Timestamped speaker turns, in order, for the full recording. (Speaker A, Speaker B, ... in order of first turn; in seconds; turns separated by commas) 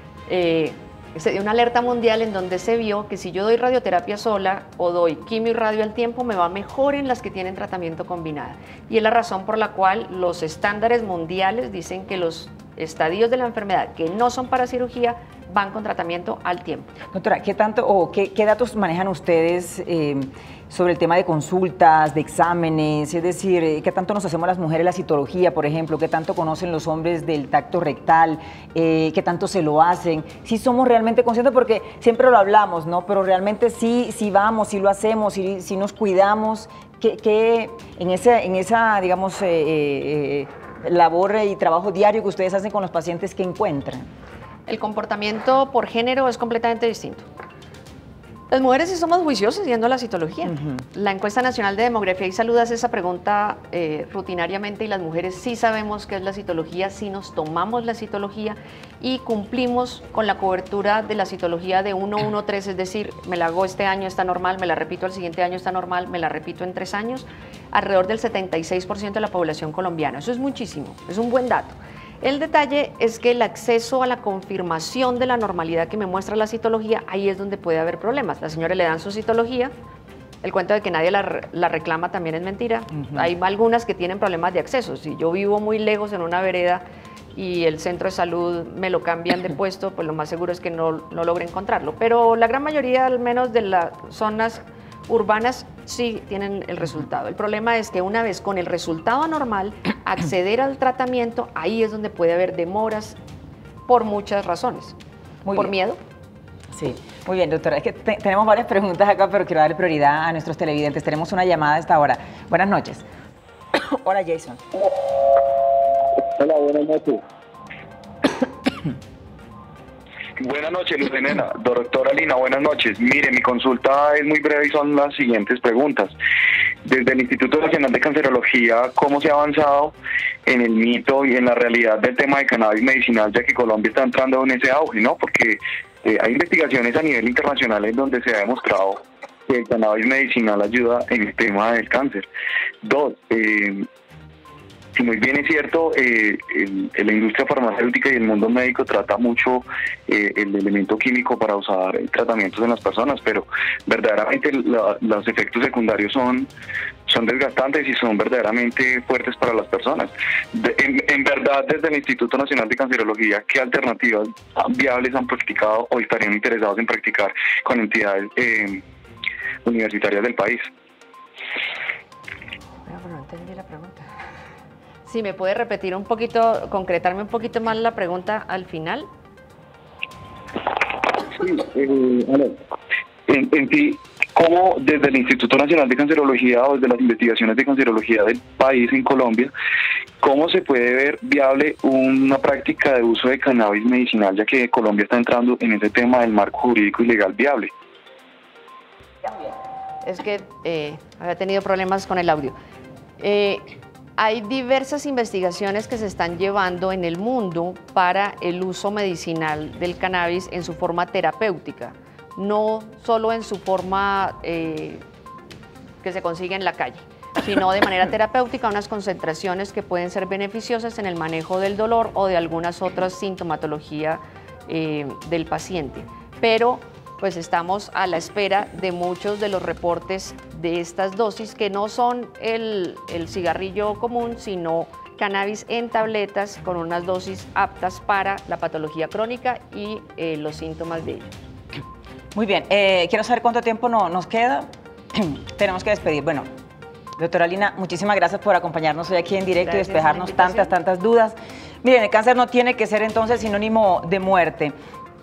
Speaker A: 0.3-16.9, Speaker B: 17.1-44.1, Speaker A: 44.7-47.2, Speaker A: 48.5-79.7, Speaker B: 50.5-50.8, Speaker A: 80.4-86.8, Speaker B: 83.0-83.3, Speaker A: 87.3-103.2, Speaker A: 103.9-104.9, Speaker B: 105.5-105.7, Speaker A: 105.5-106.0, Speaker B: 106.7-113.0, Speaker B: 113.8-114.6, Speaker C: 116.3-117.2, Speaker C: 120.4-126.1, Speaker C: 126.8-129.9, Speaker C: 130.4-142.2, Speaker C: 142.8-143.9, Speaker C: 144.9-156.5, Speaker C: 157.1-168.8, Speaker C: 169.6-170.7, Speaker A: 172.8-174.1, Speaker A: 175.1-179.1, Speaker C: 181.3-182.6, Speaker C: 183.3-189.5, Speaker C: 190.2-197.7, Speaker A: 200.0-202.5, Speaker A: 203.2-215.0, Speaker A: 216.0-241.3, Speaker B: 242.3-246.5, Speaker B: 247.2-254.8, Speaker A: 249.6-250.7